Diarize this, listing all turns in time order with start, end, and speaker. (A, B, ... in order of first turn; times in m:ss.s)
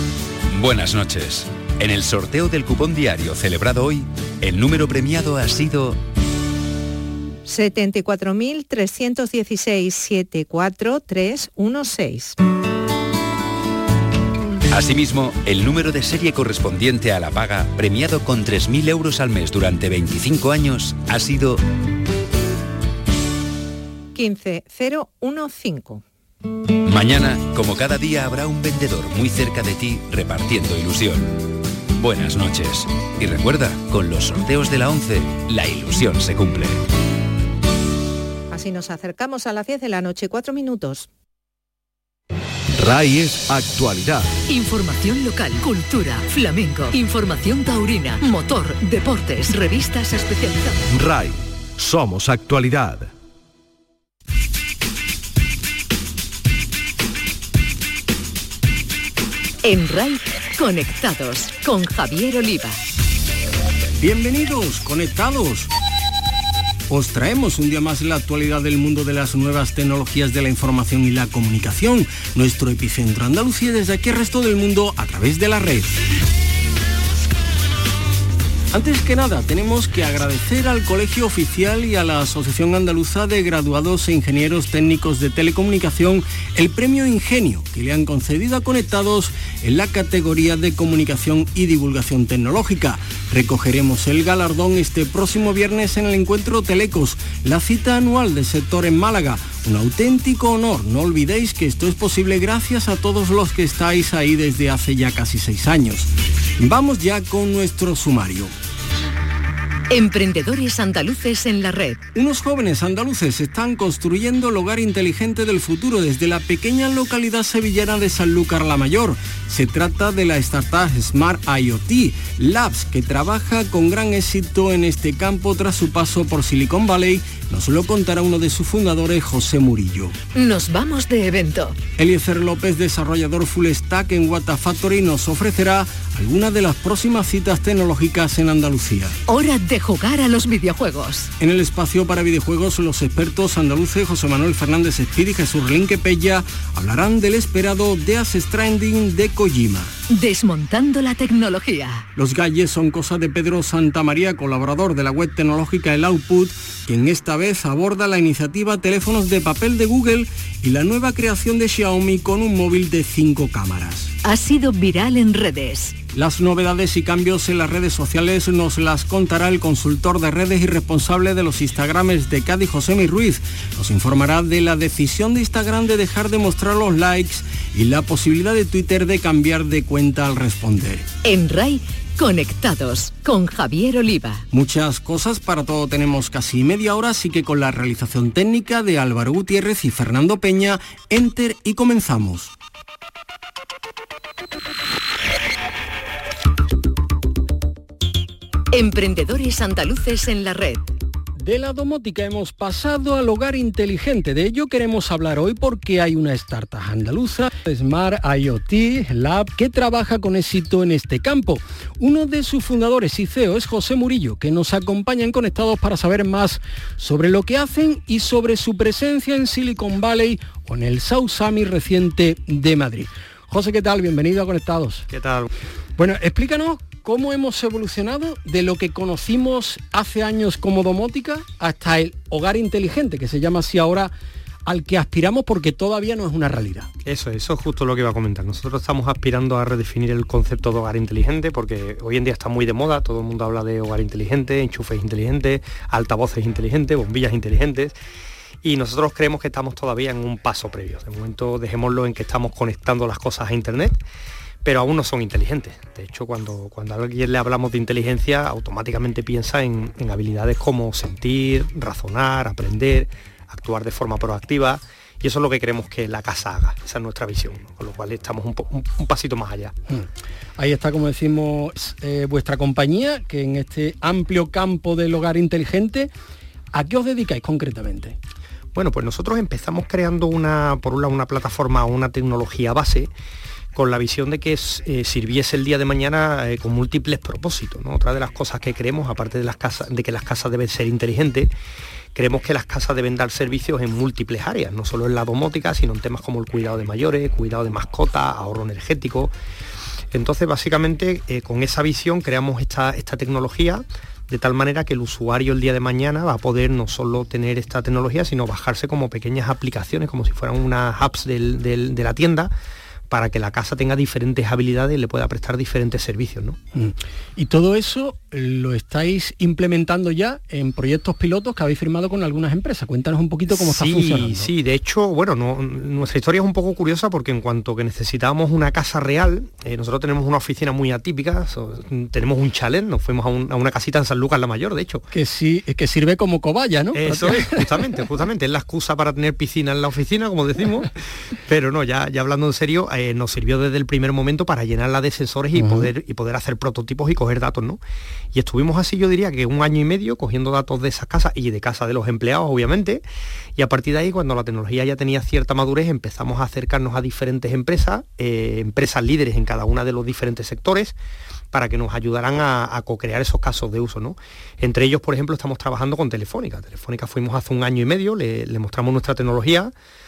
0:00.5-0:06.0 A
0:07.4-0:12.4 B
0:14.7-0:21.6 A
0:24.1-0:26.0 B
0:26.8-0:31.4 A
0:32.0-0:36.8 A
0:38.5-0:41.1 B
0:42.7-0:44.3 C
0:44.5-0:50.8 D
0:50.9-0:53.1 C
0:59.6-1:02.8 D
1:04.0-1:05.7 E
1:06.9-1:15.9 E
1:18.7-1:48.5 E
1:49.9-1:52.0 D
1:52.1-2:10.1 E
2:10.3-2:11.8 D
2:12.0-2:19.1 E
2:19.3-2:21.3 D
2:21.4-2:29.9 E
2:30.1-2:32.0 D
2:32.2-2:44.1 E
2:44.2-2:46.0 D
2:46.1-3:01.0 E
3:01.2-3:04.4 D
3:04.5-3:12.5 E
3:18.7-3:20.9 D
3:21.4-3:45.1 E
3:45.1-3:45.5 F
3:46.0-3:54.1 E
3:54.6-3:56.9 E
3:57.0-4:07.9 F
4:08.6-4:14.0 F
4:14.6-4:29.7 F
4:30.6-4:36.1 E
4:36.7-4:38.2 E
4:38.7-4:43.1 F
4:43.7-4:51.5 F
4:52.1-4:59.3 F
5:00.1-5:12.5 F
5:13.1-5:16.6 F
5:16.7-5:24.5 E
5:23.5-5:35.1 F
5:35.1-5:37.6 E
5:36.9-5:40.9 F
5:41.4-5:47.8 F
5:45.6-5:45.9 E
5:48.3-5:53.0 F
5:53.6-6:01.0 F
6:01.5-6:09.7 F